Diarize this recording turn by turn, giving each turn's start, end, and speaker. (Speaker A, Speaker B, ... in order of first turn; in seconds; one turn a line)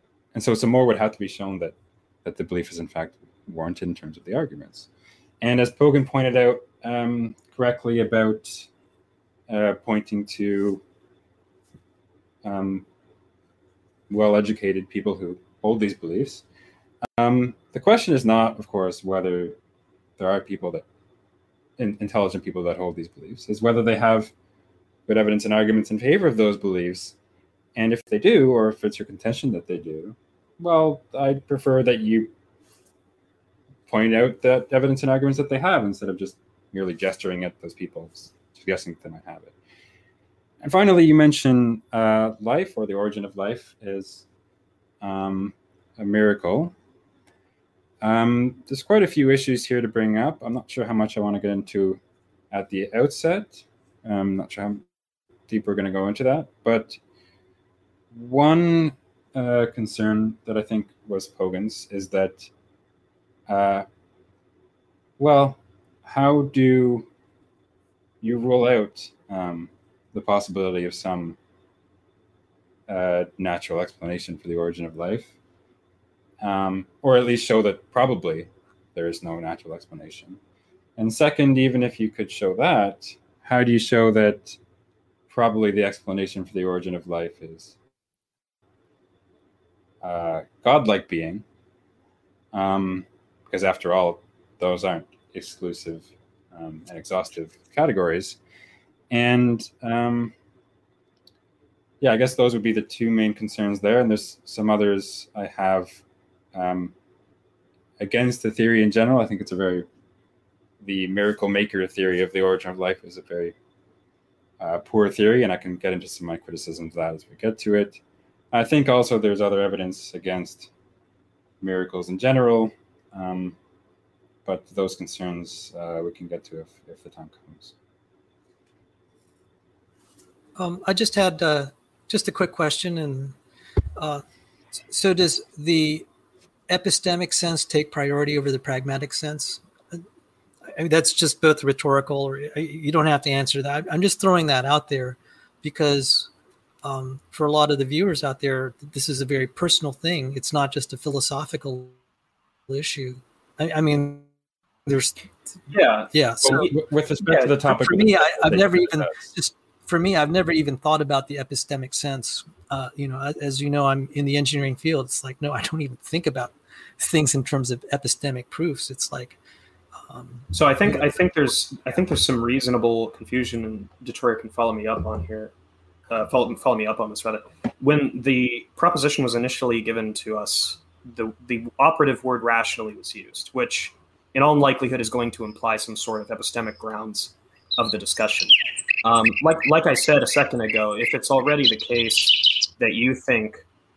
Speaker A: 0.3-4.9
Speaker A: 5.4-8.7
Speaker A: 9.5-10.8
Speaker A: 12.4-12.8
Speaker A: 14.1-16.4
Speaker A: 17.2-19.6
Speaker A: 20.2-20.9
Speaker A: 21.8-24.3
Speaker A: 25.1-27.1
Speaker A: 27.8-32.3
Speaker A: 33.9-39.5
Speaker A: 40.6-44.2
Speaker A: 45.0-46.7
Speaker A: 48.0-52.0
Speaker A: 52.5-54.9
Speaker A: 55.5-57.0
Speaker A: 58.1-62.5
Speaker A: 63.5-63.9
Speaker A: 65.2-67.1
Speaker A: 68.2-71.4
Speaker A: 72.9-75.3
Speaker A: 76.4-80.4
Speaker A: 81.0-84.6
Speaker A: 85.3-87.8
Speaker A: 90.0-91.5
Speaker A: 92.5-98.4
Speaker A: 99.1-100.3
Speaker A: 102.0-106.0
Speaker A: 106.5-106.9
Speaker A: 108.0-109.9
Speaker A: 110.8-113.5
Speaker A: 114.6-118.0
Speaker A: 118.5-120.7
Speaker A: 121.6-123.6
Speaker A: 124.5-127.7
Speaker B: 130.6-133.3
Speaker B: 134.0-134.2
Speaker B: 134.9-136.1
Speaker B: 136.7-140.0
Speaker B: 140.7-146.3
Speaker B: 146.8-151.9
Speaker B: 152.7-154.3
Speaker B: 154.9-155.2
Speaker C: 155.7-156.7
Speaker B: 156.1-156.7
Speaker A: 156.4-159.2
Speaker C: 157.3-157.8
Speaker B: 157.7-169.4
Speaker B: 170.1-171.0
Speaker C: 170.5-175.5
Speaker C: 176.1-193.6